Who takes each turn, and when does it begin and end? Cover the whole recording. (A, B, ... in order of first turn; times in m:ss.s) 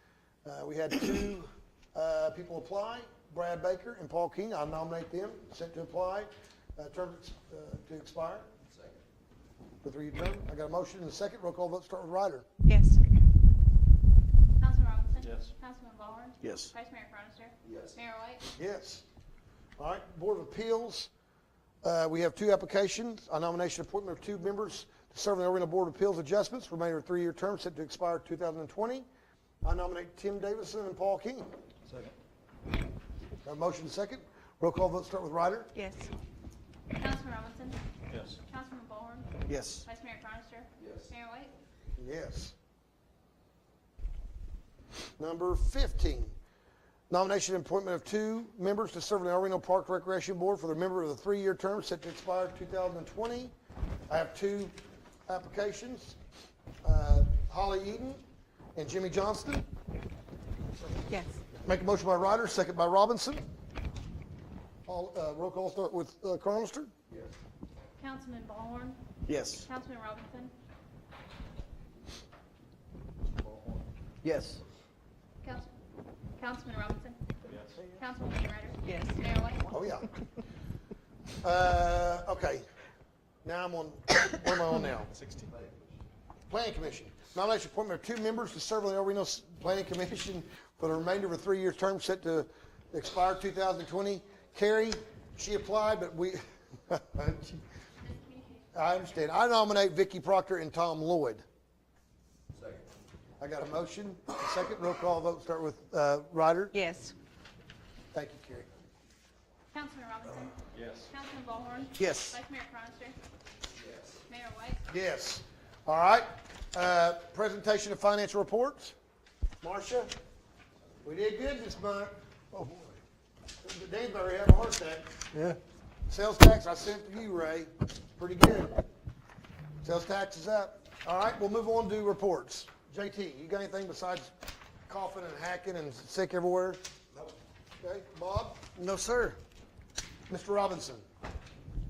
0:00.4-0:08.5 A
0:09.8-0:12.5 A
0:12.6-0:13.0 B
0:14.6-0:18.5 C
0:15.2-0:15.5 D
0:16.4-0:16.7 E
0:18.6-0:19.0 A
0:19.8-0:21.1 A
0:21.8-0:29.1 A
0:29.6-0:31.5 A
0:31.9-0:32.1 D
0:33.4-0:35.7 A
0:35.8-0:36.1 B
0:37.0-0:37.8 C
0:38.1-0:38.4 D
0:38.4-0:41.5 C
0:39.5-0:39.8 E
0:42.0-0:42.6 A
0:45.2-0:46.3 A
0:47.1-0:53.5 A
0:54.1-0:54.8 A
0:55.3-0:56.2 A
0:56.8-0:58.2 A
0:58.8-0:59.6 A
1:01.1-1:01.4 B
1:01.6-1:03.4 A
1:04.9-1:06.9 A
1:08.0-1:09.0 C
1:09.3-1:09.7 E
1:09.6-1:10.5 C
1:14.2-1:14.6 E
1:15.4-1:15.7 C
1:16.4-1:17.2 C
1:17.5-1:17.8 D
1:18.0-1:19.7 C
1:18.9-1:19.2 B
1:19.7-1:20.1 A
1:21.4-1:22.7 A
1:23.4-1:25.1 A
1:25.2-1:25.5 D
1:26.5-1:37.6 A
1:38.7-1:41.4 A
1:43.4-1:46.8 A
1:46.7-1:47.1 B
1:48.1-1:48.7 A
1:49.7-1:53.2 C
1:50.7-1:51.1 D
1:52.0-1:52.4 E
1:54.3-1:54.8 C
1:54.9-1:59.0 A
1:59.6-2:00.1 A
2:01.0-2:03.0 A
2:03.6-2:05.2 A
2:06.1-2:08.8 A
2:09.8-2:14.3 A
2:14.9-2:16.8 A
2:17.8-2:18.9 A
2:20.3-2:21.0 A